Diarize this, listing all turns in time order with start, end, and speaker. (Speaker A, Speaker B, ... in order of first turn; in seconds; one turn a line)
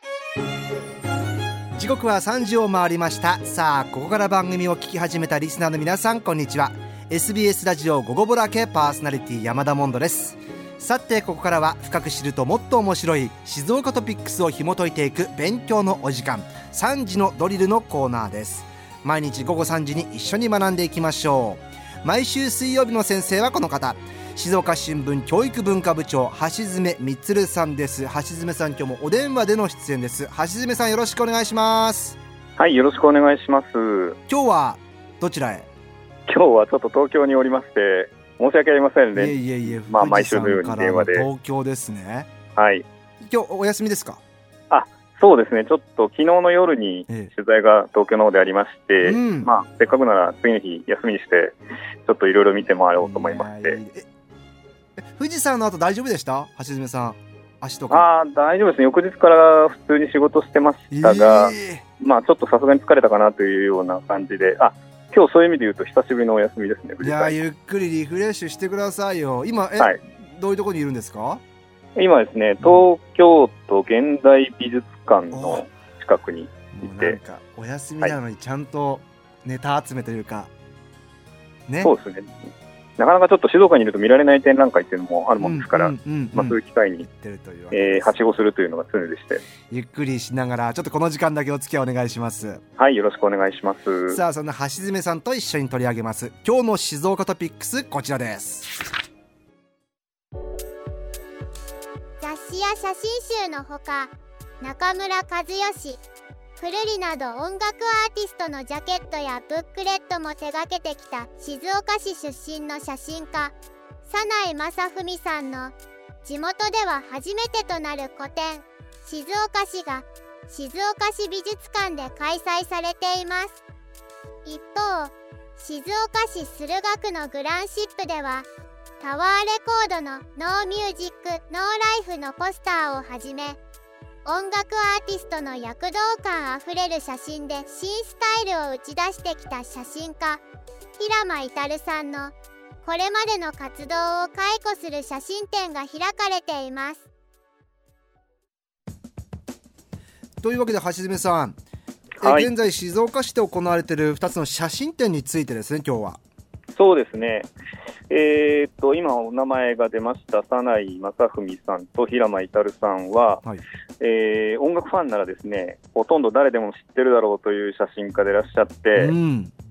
Speaker A: 1.7-32.2
Speaker B: 32.6-34.2
Speaker A: 34.3-35.7
Speaker B: 36.3-41.3
Speaker A: 39.1-42.3
Speaker B: 42.6-42.8
Speaker A: 43.2-44.2
Speaker B: 44.7-53.8
Speaker A: 49.0-49.5
Speaker A: 53.0-54.0
Speaker A: 55.0-58.1
Speaker B: 57.9-67.4
Speaker A: 60.9-61.8
Speaker A: 67.0-71.4
Speaker B: 72.0-77.2
Speaker A: 75.3-75.7
Speaker A: 76.7-80.5
Speaker A: 81.7-81.9
Speaker B: 81.8-82.3
Speaker B: 83.0-87.0
Speaker A: 85.4-88.2
Speaker B: 87.7-89.4
Speaker A: 89.7-92.6
Speaker B: 92.8-94.2
Speaker A: 94.1-98.8
Speaker C: 102.2-106.0
Speaker C: 106.6-123.6
Speaker C: 124.4-128.4
Speaker C: 129.0-133.6
Speaker C: 134.2-140.4
Speaker C: 141.0-147.1
Speaker A: 150.4-151.6
Speaker A: 152.2-156.2
Speaker B: 152.2-152.5
Speaker B: 156.8-157.5
Speaker B: 158.1-163.4
Speaker B: 164.0-169.1
Speaker A: 168.9-169.5